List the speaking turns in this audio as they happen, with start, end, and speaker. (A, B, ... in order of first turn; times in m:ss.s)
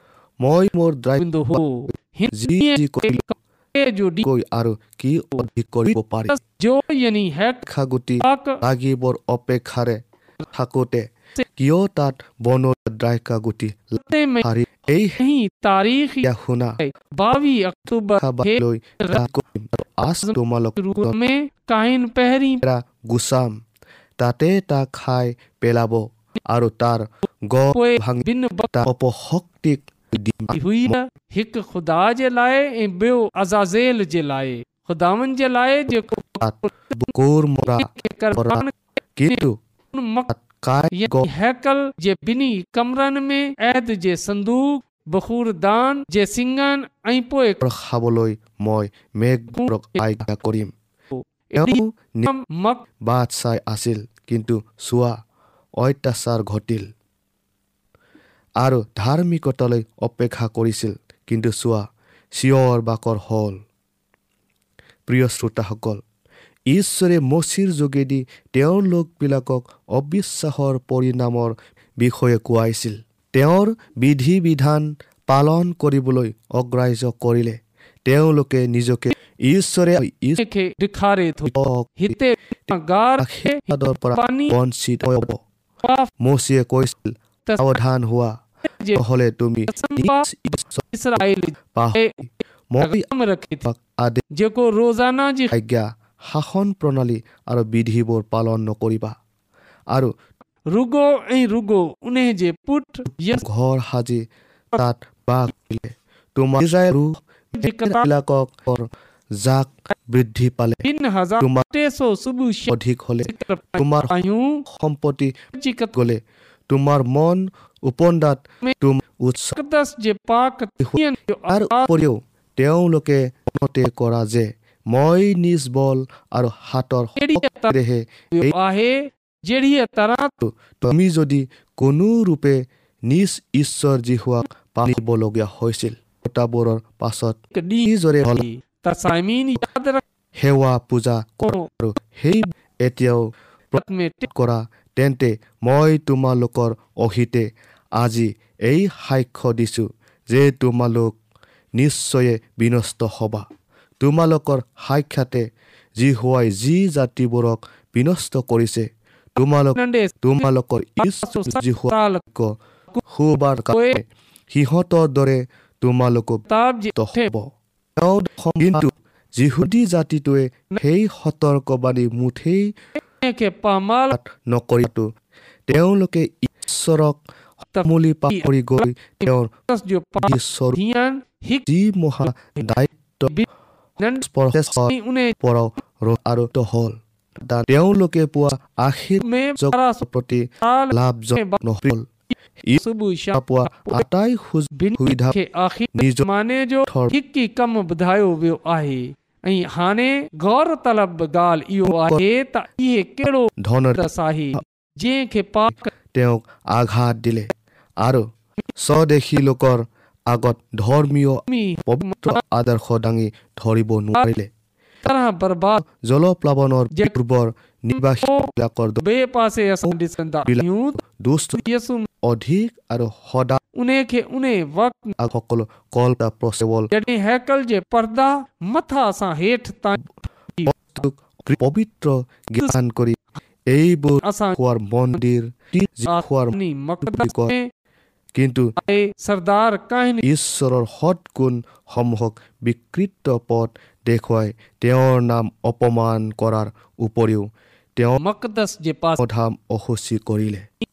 0:00.4-0:01.6 A
0:01.2-0:04.2 B
0:02.3-0:03.2 A
0:04.2-0:06.3 A
0:06.3-0:07.7 B
0:07.7-0:10.0 A
0:08.2-0:08.6 B
0:10.5-0:15.2 A
0:14.0-0:14.5 B
0:15.2-0:16.3 B
0:16.2-0:16.8 A
0:16.8-0:19.2 B
0:18.2-0:21.1 A
0:20.2-0:22.6 B
0:22.6-0:23.6 A
0:24.2-0:31.0 A
0:27.7-0:28.7 B
0:30.5-0:37.0 B
0:36.4-0:39.6 A
0:37.7-0:38.7 B
0:39.9-0:40.3 B
0:40.3-0:41.3 A
0:40.9-0:47.6 B
0:47.6-0:50.7 A
0:49.6-0:50.0 B
0:51.1-0:52.8 B
0:51.5-0:52.3 A
0:53.0-0:55.2 A
0:55.8-0:56.9 A
0:58.6-1:03.6 A
1:05.1-1:06.0 A
1:06.7-1:20.4 A
1:20.4-1:24.5 B
1:21.4-1:22.2 A
1:23.2-1:25.4 A
1:25.8-1:26.1 B
1:26.2-1:28.4 A
1:27.5-1:27.7 B
1:29.0-1:30.8 A
1:29.7-1:30.2 B
1:30.9-1:32.2 B
1:31.7-1:33.0 A
1:32.8-1:33.7 B
1:33.6-1:34.2 A
1:34.3-1:35.5 B
1:35.5-1:39.2 A
1:40.7-1:43.4 B
1:43.3-1:50.8 A
1:47.6-1:48.1 B
1:50.8-1:52.7 B
1:51.4-1:51.6 A
1:52.7-1:54.1 A
1:53.3-1:54.6 B
1:54.7-1:55.3 A
1:55.5-1:55.9 B
1:55.9-1:59.6 A
1:59.6-2:01.9 B
2:00.8-2:08.5 A
2:07.2-2:07.8 B
2:08.3-2:10.3 B
2:10.4-2:18.4 A
2:17.5-2:20.0 B
2:20.4-2:31.2 A
2:23.8-2:24.3 B
2:31.7-2:33.4 A
2:34.0-2:35.5 A
2:36.0-2:42.6 A
2:39.8-2:40.5 B
2:41.2-2:42.2 B
2:43.1-2:46.4 A
2:43.7-2:44.0 B
2:46.5-2:47.3 B
2:47.0-2:52.8 A
2:53.2-2:54.2 B
2:54.1-2:55.1 A
2:55.7-2:57.2 A
2:57.7-3:01.7 B
2:57.8-2:59.5 A
3:00.2-3:00.8 A
3:01.7-3:03.3 A
3:02.2-3:02.7 B
3:04.0-3:05.3 B
3:04.2-3:12.0 A
3:09.2-3:10.0 B
3:10.6-3:11.6 B
3:12.8-3:14.0 B
3:13.3-3:15.4 A
3:14.8-3:25.9 B
3:15.9-3:16.2 A
3:16.9-3:17.1 A
3:21.9-3:22.2 A
3:23.6-3:24.0 A
3:26.1-3:34.5 A
3:31.5-3:32.4 B
3:35.0-3:35.8 B
3:35.9-3:39.0 A
3:38.2-3:38.5 B
3:39.0-3:41.0 B
3:40.5-3:41.6 A
3:41.6-3:42.1 B
3:42.2-3:43.6 A
3:43.8-3:45.1 B
3:45.2-3:46.9 A
3:46.9-3:50.0 B
3:50.6-3:50.9 B
3:50.7-3:53.2 A
3:53.7-3:57.5 A
3:54.2-3:54.6 B
3:56.1-3:57.6 B
3:58.3-3:58.7 A
3:58.8-4:00.2 B
4:00.2-4:08.2 A
4:08.2-4:09.2 B
4:09.2-4:10.7 A